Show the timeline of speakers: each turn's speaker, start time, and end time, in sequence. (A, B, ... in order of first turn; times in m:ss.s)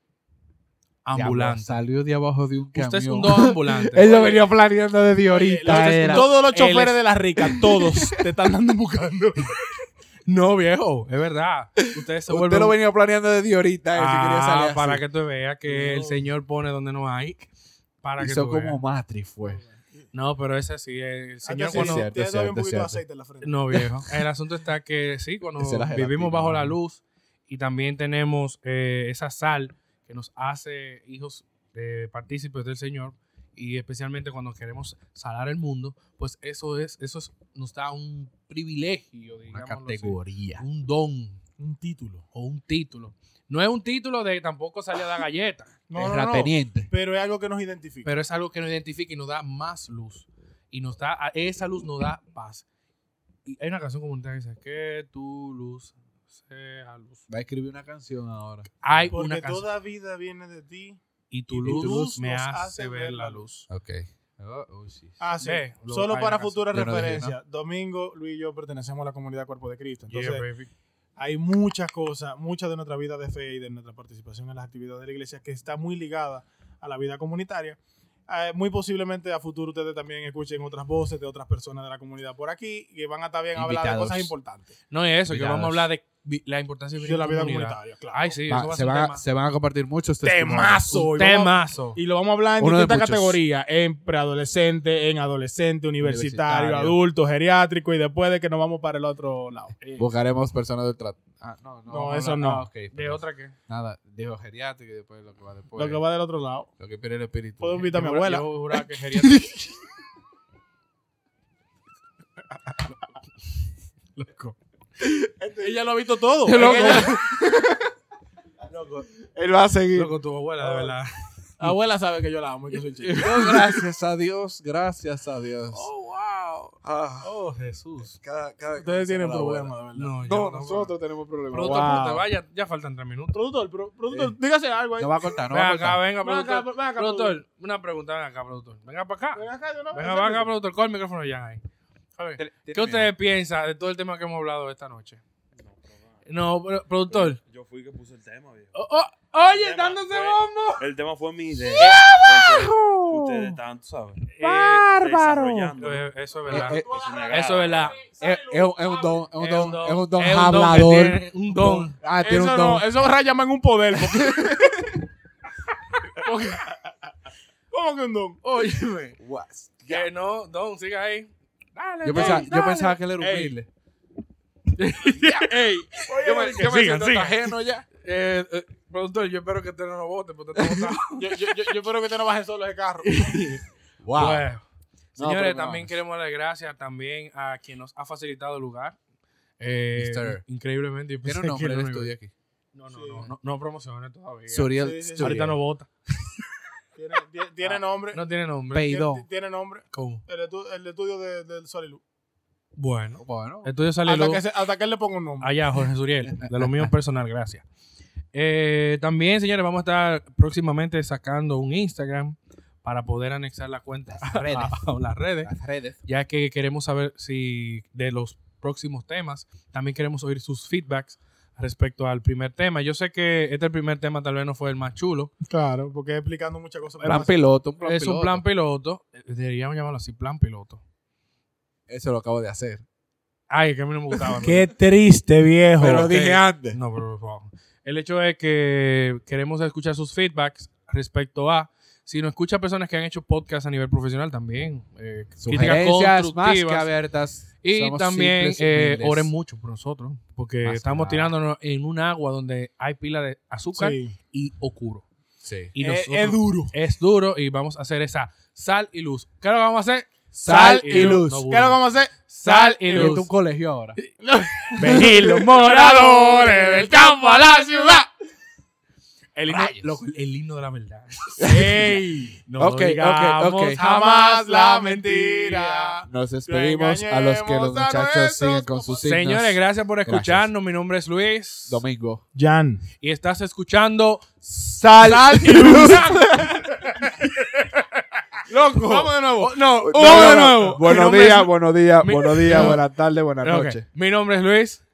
0:01.0-0:01.8 A
0:01.1-0:06.3 B
0:02.7-0:04.5 A
0:05.3-0:09.6 C
0:05.6-0:07.0 A
0:07.4-0:08.1 B
0:10.3-0:12.8 A
0:11.8-0:15.0 B
0:13.9-0:17.5 A
0:15.7-0:16.3 C
0:18.0-0:18.8 A
0:18.2-0:19.6 B
0:20.1-0:22.1 A
0:21.4-0:23.8 C
0:21.7-0:23.0 B
0:23.4-0:41.4 A
0:25.6-0:26.8 B
0:39.5-0:40.6 B
0:41.6-0:42.2 C
0:42.3-0:45.7 A
0:45.9-0:48.1 C
0:45.9-0:46.9 B
0:48.0-0:52.6 A
0:53.4-0:57.2 A
0:57.3-0:59.1 B
0:58.8-0:59.6 A
0:59.1-1:03.4 C
1:01.3-1:03.7 A
1:01.7-1:02.2 B
1:03.7-1:05.2 B
1:05.2-1:10.4 C
1:05.4-1:07.3 A
1:06.7-1:07.3 B
1:10.1-1:10.7 A
1:11.2-1:24.7 C
1:23.5-1:24.3 B
1:24.9-1:29.2 A
1:25.3-1:25.9 B
1:27.0-1:28.4 C
1:28.5-1:31.1 B
1:30.2-1:39.8 C
1:30.9-1:32.0 A
1:32.6-1:33.4 B
1:36.0-1:37.0 B
1:39.8-1:40.1 A
1:40.0-1:46.0 B
1:41.9-1:42.7 C
1:42.9-1:43.5 A
1:45.8-1:46.7 C
1:46.8-1:47.9 B
1:47.6-1:48.5 C
1:47.8-1:49.4 A
1:49.2-1:49.8 B
1:54.2-1:54.5 A
1:55.0-1:55.7 B
1:55.6-1:57.2 C
1:56.4-1:57.2 A
1:56.5-1:57.9 B
1:58.7-1:59.1 A
1:59.2-2:00.1 B
1:59.9-2:01.1 A
2:01.6-2:03.6 C
2:03.0-2:03.8 A
2:03.2-2:05.9 B
2:05.7-2:08.2 A
2:06.8-2:07.3 B
2:08.2-2:09.7 B
2:08.8-2:10.1 C
2:09.9-2:10.9 A
2:10.2-2:12.0 B
2:11.5-2:13.4 A
2:11.6-2:12.3 C
2:13.3-2:15.2 C
2:14.1-2:14.4 B
2:15.0-2:16.0 B
2:15.5-2:21.6 A
2:16.2-2:17.4 C
2:19.3-2:20.5 C
2:22.2-2:25.2 A
2:22.4-2:23.1 B
2:25.6-2:26.3 D
2:26.2-2:27.4 A
2:27.1-2:28.7 D
2:28.7-2:30.9 A
2:29.5-2:34.3 D
2:31.6-2:33.6 B
2:31.8-2:32.2 A
2:34.3-2:34.9 A
2:34.4-2:35.8 B
2:34.8-2:38.2 D
2:35.8-2:38.0 A
2:36.5-2:37.2 B
2:36.9-2:39.2 C
2:38.2-2:42.9 B
2:39.4-2:41.9 A
2:42.2-2:44.9 C
2:44.1-2:45.0 B
2:46.2-2:47.1 C
2:47.7-2:48.4 C
2:48.4-2:49.2 A
2:49.2-2:50.0 B
2:49.8-2:53.5 A
2:52.0-2:53.7 B
2:52.1-2:52.5 C
2:54.8-3:01.5 A
2:55.0-2:57.8 B
3:00.6-3:00.9 B
3:01.1-3:03.6 C
3:03.0-3:03.6 A
3:04.0-3:04.5 B
3:04.1-3:04.6 A
3:05.2-3:09.0 A
3:05.2-3:05.9 B
3:09.6-3:12.1 A
3:10.0-3:10.4 B
3:11.2-3:12.3 B
3:12.7-3:15.9 A
3:12.9-3:13.3 C
3:14.5-3:15.6 B
3:14.7-3:15.4 C
3:17.0-3:22.0 C
3:17.6-3:18.9 A
3:18.7-3:19.2 B
3:19.9-3:20.2 A
3:22.8-3:24.4 A
3:23.2-3:23.7 B
3:24.0-3:25.5 C
3:25.4-3:27.6 A
3:26.4-3:26.8 B
3:28.3-3:35.5 A
3:34.1-3:34.8 B
3:35.4-3:36.0 B
3:36.0-3:45.3 A
3:45.4-3:47.4 C
3:47.0-3:48.4 B
3:47.8-3:50.8 A
3:51.9-3:52.8 B
3:53.5-3:54.7 A
3:54.4-3:56.1 C
3:55.8-3:56.8 B
3:55.8-4:06.9 A
4:05.4-4:09.3 B
4:07.6-4:15.0 A
4:10.6-4:11.3 B
4:13.7-4:14.1 C
4:15.4-4:15.7 B
4:15.7-4:23.2 A
4:15.8-4:16.7 C
4:20.4-4:21.4 B
4:20.4-4:23.2 C
4:22.9-4:24.0 B
4:24.0-4:27.2 A
4:24.2-4:28.0 C
4:29.4-4:31.7 A
4:29.5-4:30.0 B
4:31.4-4:31.8 B
4:31.4-4:32.4 C
4:32.4-4:36.0 A
4:32.6-4:33.8 B
4:33.8-4:39.1 C
4:36.1-4:40.5 B
4:39.0-4:41.8 A
4:41.7-4:42.2 B
4:42.3-4:42.8 C
4:43.0-4:46.7 A
4:45.0-4:50.8 C
4:45.0-4:46.5 B
4:48.5-4:52.8 A
4:49.8-4:53.8 B
4:52.5-4:52.8 C
4:53.4-4:54.8 A